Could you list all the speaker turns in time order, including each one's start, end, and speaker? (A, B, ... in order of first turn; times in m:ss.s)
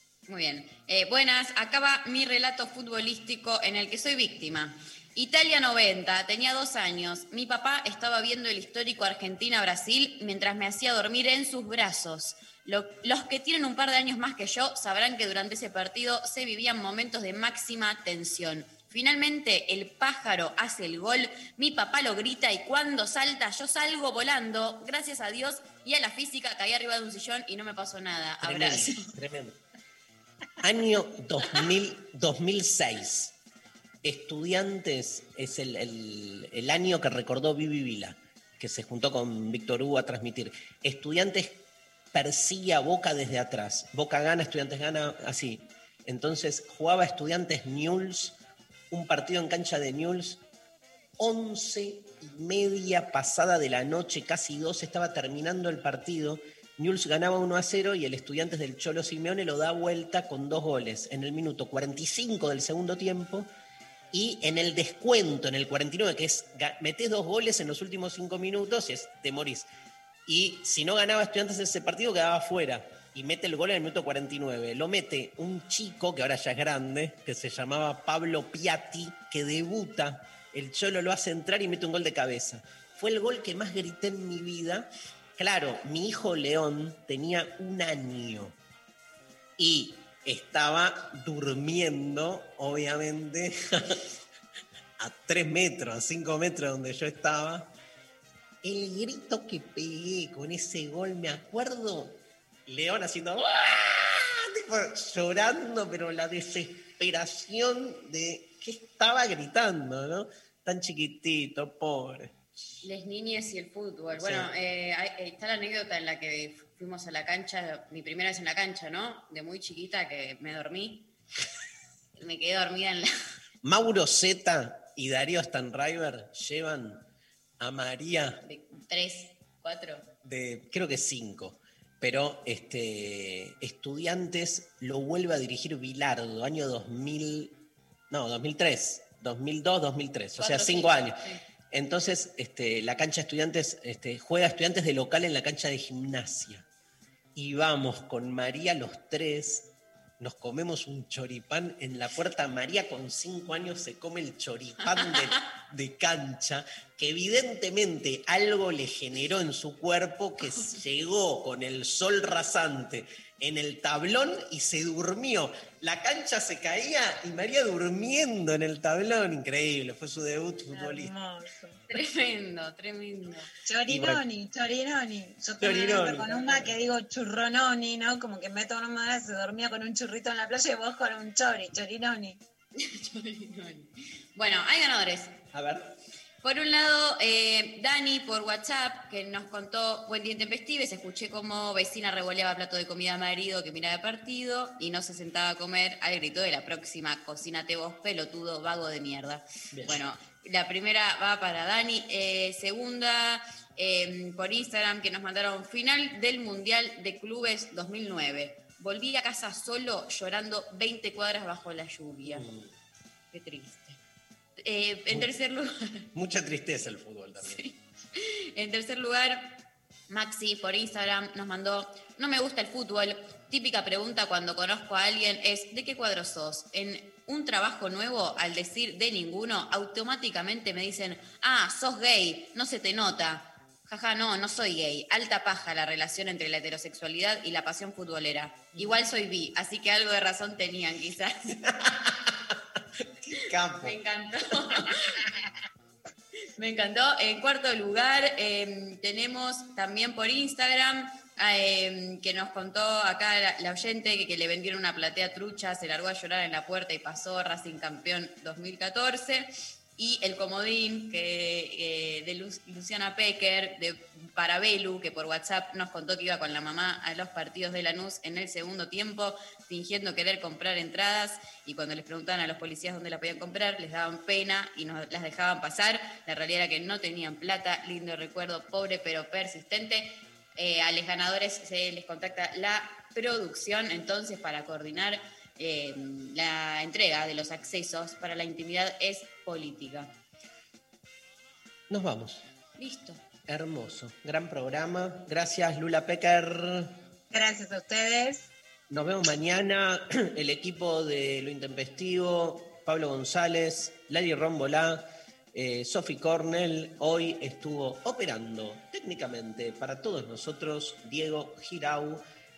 0:00.3-0:29.1 A
0:28.4-0:29.6 B
0:30.6-0:33.4 B
0:34.0-0:48.4 B
0:48.9-0:50.4 B
0:51.2-1:03.5 B
1:04.1-1:09.7 B
1:10.3-1:28.6 B
1:29.6-1:34.0 B
1:35.0-1:37.7 B
1:38.6-1:52.4 B
1:52.8-2:01.1 A
1:54.2-1:54.5 B
2:02.2-2:03.1 A
2:03.6-2:07.1 B
2:07.6-2:08.4 B
2:08.4-2:10.1 A
2:10.2-2:26.7 B
2:20.4-2:21.4 A
2:27.4-2:51.1 B
2:34.9-2:35.4 A
2:50.7-2:51.8 C
2:51.9-2:53.5 A
2:53.6-3:02.4 C
2:53.9-2:54.2 B
2:55.6-2:56.7 B
3:02.8-3:05.4 A
3:05.5-3:06.0 B
3:06.4-3:32.5 A
3:19.7-3:20.0 B
3:32.3-3:32.7 B
3:33.3-3:34.0 A
3:34.6-3:36.1 A
3:36.1-3:37.7 B
3:37.4-4:01.6 A
4:01.6-4:02.6 B
4:03.2-4:04.0 B
4:03.8-4:05.3 A
4:06.6-4:50.1 A
4:51.9-4:52.4 B
4:52.8-4:53.2 A
4:53.5-4:57.0 B
4:57.3-4:58.5 C
4:58.9-5:12.2 B